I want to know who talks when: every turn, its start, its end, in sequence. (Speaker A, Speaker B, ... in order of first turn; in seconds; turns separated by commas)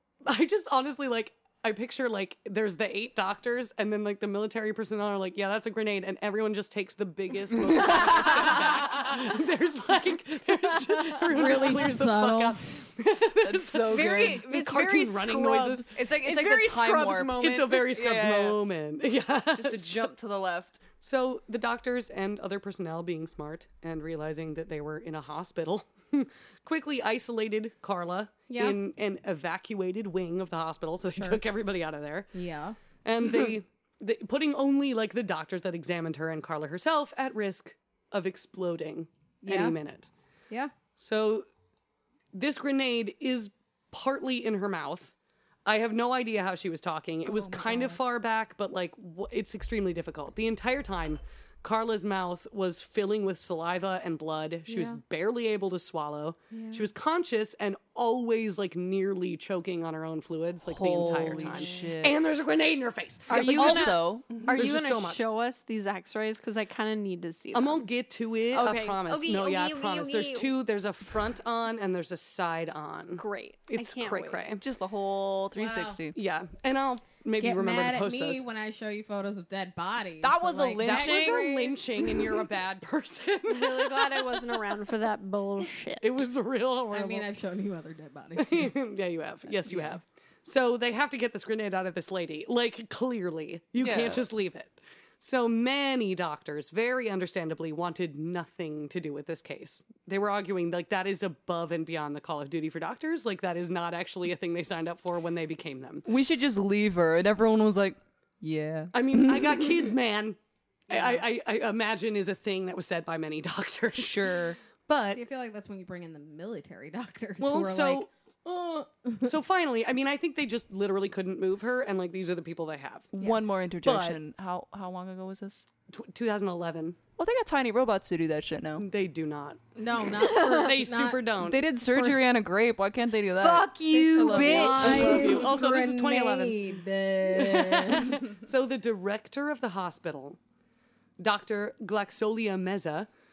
Speaker A: 0.2-16.0, Speaker B: 11.1-11.8, Speaker C: 11.2-12.6, Speaker D: 13.4-14.5, Speaker B: 13.8-17.9, Speaker D: 16.0-18.6, Speaker A: 17.4-20.1, Speaker D: 19.5-20.8, Speaker A: 21.0-32.3, Speaker C: 28.5-28.8, Speaker C: 31.1-31.4, Speaker C: 32.3-32.8, Speaker A: 33.0-40.1, Speaker C: 39.4-39.8, Speaker A: 41.0-41.5, Speaker A: 42.3-45.1, Speaker A: 45.7-65.2, Speaker C: 47.3-48.0, Speaker C: 54.7-55.0, Speaker C: 56.5-56.9, Speaker D: 60.7-62.2, Speaker C: 61.4-61.8, Speaker B: 63.3-67.8, Speaker D: 63.3-64.5, Speaker A: 67.5-74.6, Speaker B: 68.5-70.5, Speaker B: 73.2-74.5, Speaker D: 74.6-76.2, Speaker C: 75.6-76.0, Speaker A: 76.2-78.5, Speaker C: 77.4-81.6, Speaker D: 80.2-81.8, Speaker A: 80.8-84.5, Speaker B: 83.5-86.3, Speaker A: 86.0-87.3, Speaker C: 86.9-88.7, Speaker A: 88.4-106.1, Speaker C: 89.6-90.0, Speaker D: 93.8-94.2, Speaker D: 106.1-109.9, Speaker A: 108.9-110.4, Speaker A: 110.9-115.2, Speaker C: 110.9-111.2, Speaker D: 114.0-114.6, Speaker C: 115.1-119.3, Speaker A: 117.4-118.1, Speaker A: 119.2-123.2, Speaker D: 123.2-125.7, Speaker A: 123.8-124.2, Speaker A: 125.9-127.0, Speaker D: 127.2-128.9, Speaker A: 128.8-129.6, Speaker C: 129.8-131.2, Speaker A: 130.2-131.7, Speaker D: 131.4-135.5, Speaker C: 131.9-132.2, Speaker C: 133.9-138.2, Speaker A: 134.1-136.6, Speaker B: 134.4-134.8, Speaker A: 137.3-140.4, Speaker A: 141.2-143.1